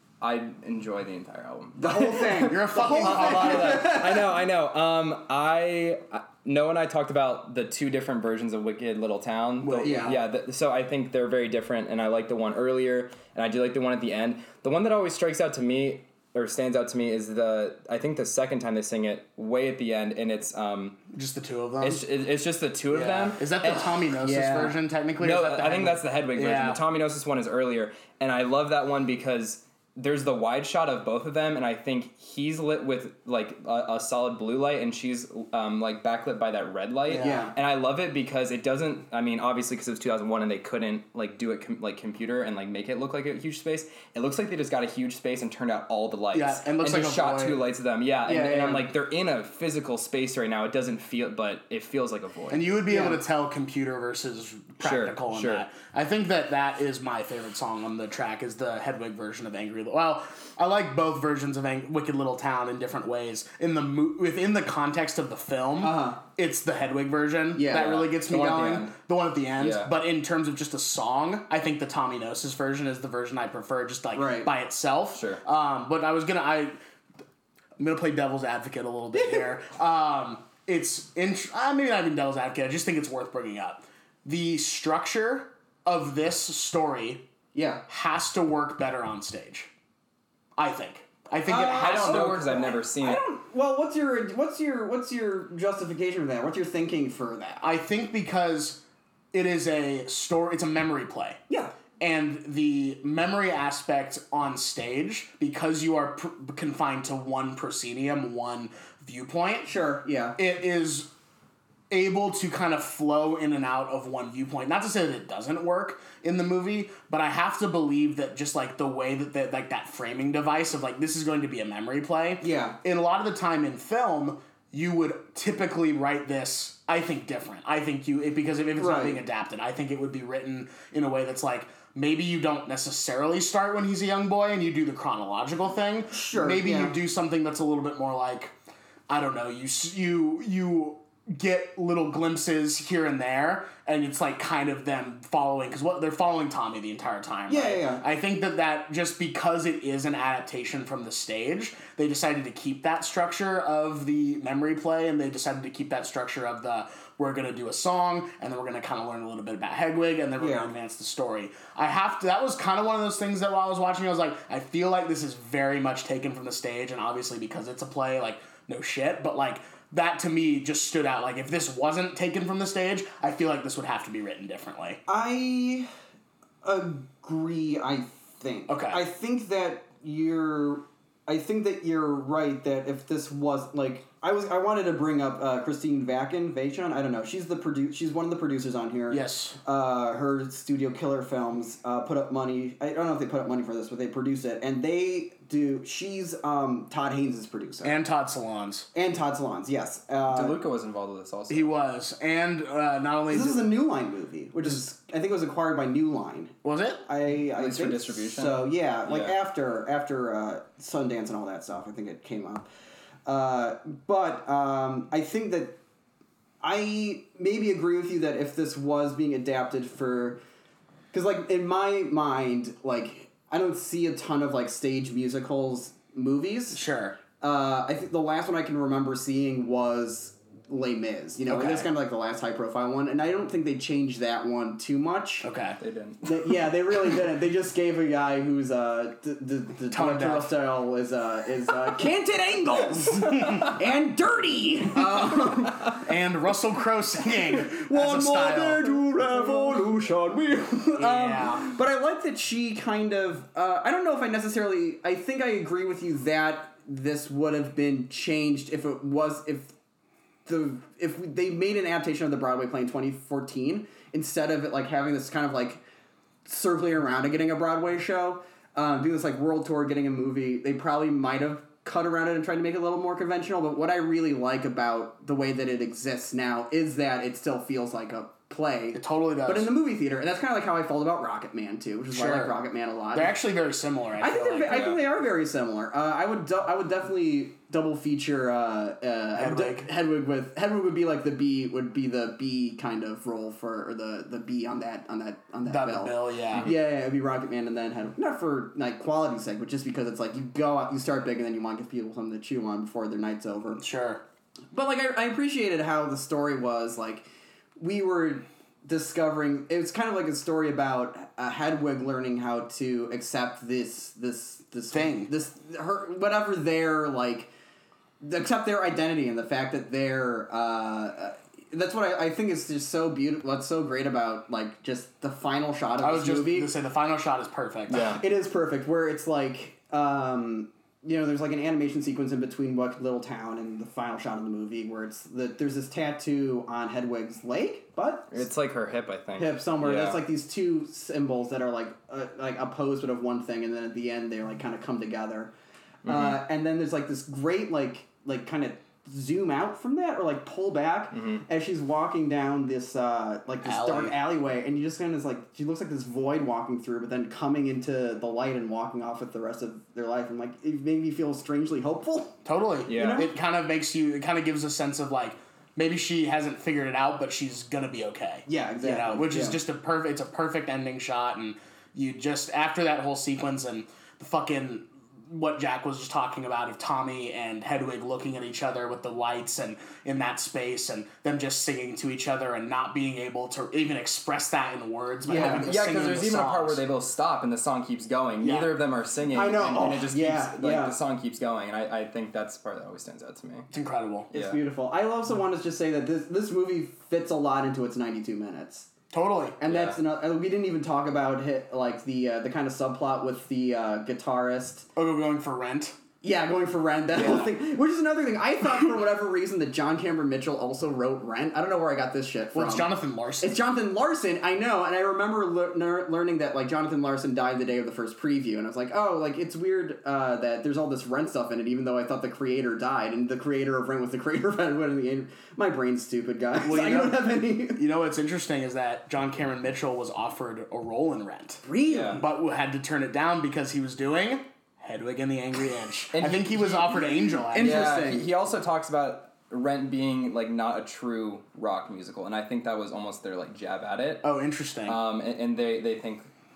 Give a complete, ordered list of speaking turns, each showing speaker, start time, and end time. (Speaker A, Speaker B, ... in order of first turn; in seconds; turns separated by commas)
Speaker A: 0.2-21.0, Speaker B: 1.8-4.3, Speaker C: 2.4-3.8, Speaker C: 9.6-10.1, Speaker B: 9.8-10.2, Speaker C: 21.1-22.1, Speaker A: 21.8-24.1, Speaker C: 22.9-26.8, Speaker B: 24.2-24.7, Speaker A: 25.2-52.8, Speaker C: 37.1-37.5, Speaker B: 37.2-37.5, Speaker C: 46.3-47.6, Speaker B: 48.2-48.9, Speaker C: 52.5-76.8, Speaker B: 52.9-53.2, Speaker A: 54.8-55.6, Speaker B: 65.8-66.2, Speaker B: 67.5-68.1, Speaker A: 67.7-68.9, Speaker A: 69.6-69.9, Speaker B: 74.1-74.5, Speaker A: 75.1-75.4, Speaker C: 77.8-87.2, Speaker B: 87.5-87.8, Speaker C: 87.9-89.7, Speaker C: 90.5-92.8, Speaker B: 91.5-97.7, Speaker A: 91.7-93.2, Speaker C: 97.6-98.8, Speaker C: 99.3-101.4, Speaker C: 102.0-109.7, Speaker B: 109.6-110.4, Speaker C: 110.4-111.1, Speaker C: 111.9-138.5, Speaker B: 122.4-122.8, Speaker B: 128.8-129.2, Speaker B: 136.1-136.9, Speaker C: 139.1-175.0, Speaker B: 147.5-148.0, Speaker B: 160.4-160.7, Speaker B: 175.1-175.9, Speaker B: 176.6-197.9, Speaker C: 178.7-179.0, Speaker C: 189.1-189.6, Speaker C: 197.8-198.9, Speaker B: 198.9-200.6, Speaker A: 200.3-201.7, Speaker C: 201.5-203.7, Speaker B: 203.3-206.5, Speaker C: 206.6-207.0, Speaker B: 207.1-212.7, Speaker A: 207.6-209.3, Speaker B: 213.2-215.8, Speaker B: 216.6-220.4, Speaker B: 221.1-226.8, Speaker C: 226.7-227.2, Speaker B: 227.4-235.5, Speaker C: 231.5-231.9, Speaker C: 235.4-235.8, Speaker A: 235.8-236.2, Speaker B: 236.2-246.0, Speaker C: 239.9-240.5, Speaker C: 245.9-249.0, Speaker B: 247.3-259.7, Speaker C: 250.9-251.7, Speaker B: 260.4-265.8, Speaker B: 266.4-283.4, Speaker C: 278.9-279.7, Speaker C: 282.1-282.5, Speaker C: 283.1-285.0, Speaker B: 284.2-303.8, Speaker A: 284.6-285.0, Speaker C: 289.4-289.9, Speaker C: 295.6-296.7, Speaker C: 303.8-304.2, Speaker B: 304.7-307.3, Speaker B: 307.8-317.5, Speaker C: 314.9-315.3, Speaker B: 318.2-326.7, Speaker C: 326.0-328.1, Speaker A: 327.9-328.2, Speaker B: 327.9-338.4, Speaker A: 338.3-340.2, Speaker B: 339.4-345.5, Speaker A: 346.1-346.4, Speaker B: 346.1-363.3, Speaker A: 351.1-351.4, Speaker C: 353.6-354.1, Speaker C: 362.4-386.8, Speaker A: 362.9-363.2, Speaker B: 368.4-369.6, Speaker B: 385.2-385.7, Speaker A: 385.4-393.7, Speaker C: 388.4-388.7, Speaker B: 389.3-390.9, Speaker C: 393.7-394.3, Speaker A: 394.3-394.6, Speaker B: 394.3-398.9, Speaker C: 399.1-399.6, Speaker B: 399.6-404.9, Speaker A: 399.6-400.0, Speaker C: 404.9-405.9, Speaker B: 406.2-427.8, Speaker C: 412.5-413.6, Speaker C: 426.6-431.6, Speaker B: 431.6-432.2, Speaker A: 431.9-432.2, Speaker C: 432.2-438.0, Speaker A: 436.1-436.9, Speaker B: 437.5-438.3, Speaker A: 437.6-444.2, Speaker C: 444.2-445.0, Speaker A: 444.9-446.3